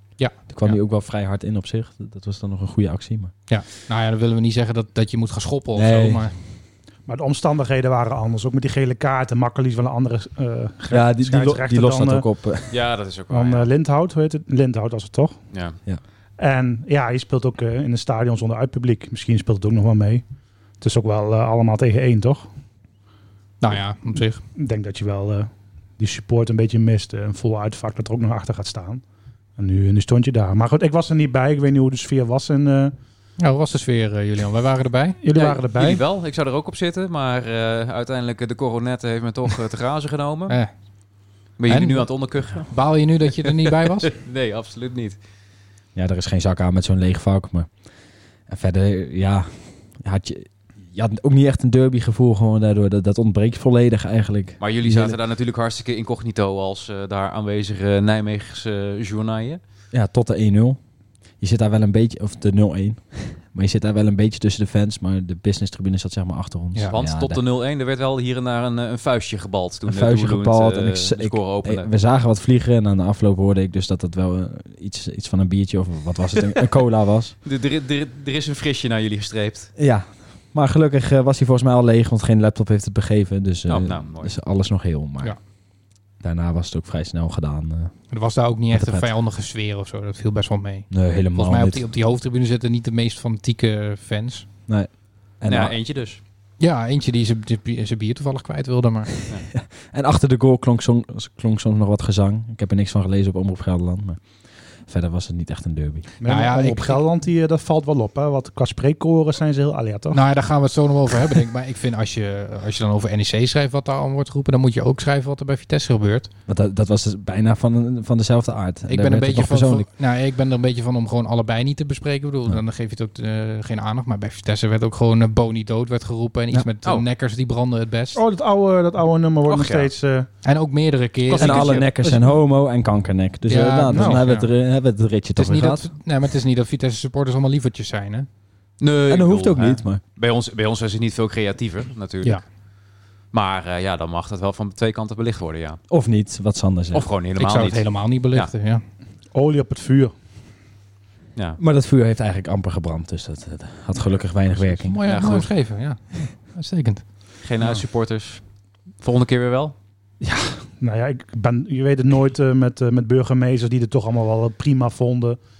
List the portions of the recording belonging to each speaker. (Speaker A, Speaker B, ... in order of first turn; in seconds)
Speaker A: 0.2-0.8, 3.5-6.3, 23.6-24.4, 33.4-35.2, 41.7-44.1, 88.1-94.5, 96.6-99.1, 106.2-107.0, 110.1-116.3, 118.9-128.2, 130.4-132.0, 133.5-134.5, 135.3-138.3, 147.4-148.8, 154.6-157.0
Speaker B: 0.5-3.3, 5.7-6.2, 10.9-12.8, 45.9-47.7, 48.5-55.2, 59.9-60.8, 61.4-67.4, 69.8-77.3, 79.8-85.4, 86.2-87.9, 88.7-89.1, 90.9-91.8, 94.7-95.8, 99.5-106.1, 116.5-119.9, 131.3-135.9, 139.1-140.0, 145.9-147.1, 151.6-155.3
Speaker C: 7.1-12.2, 13.3-15.4, 16.4-20.2, 20.8-22.5, 24.6-29.0, 29.6-32.9, 35.2-36.0, 106.2-110.2, 128.1-130.3, 131.6-132.3, 133.9-134.2, 149.3-150.1, 160.2-165.4
Speaker D: 12.7-13.7, 15.5-15.8, 35.3-40.6, 41.6-42.7, 43.4-45.2, 54.6-59.6, 66.9-71.9, 77.4-79.7, 83.7-84.3, 95.5-96.2, 129.4-129.9, 131.3-131.7, 138.8-142.4, 143.3-145.8, 146.9-148.5, 155.1-155.5, 157.4-158.4, 159.0-159.7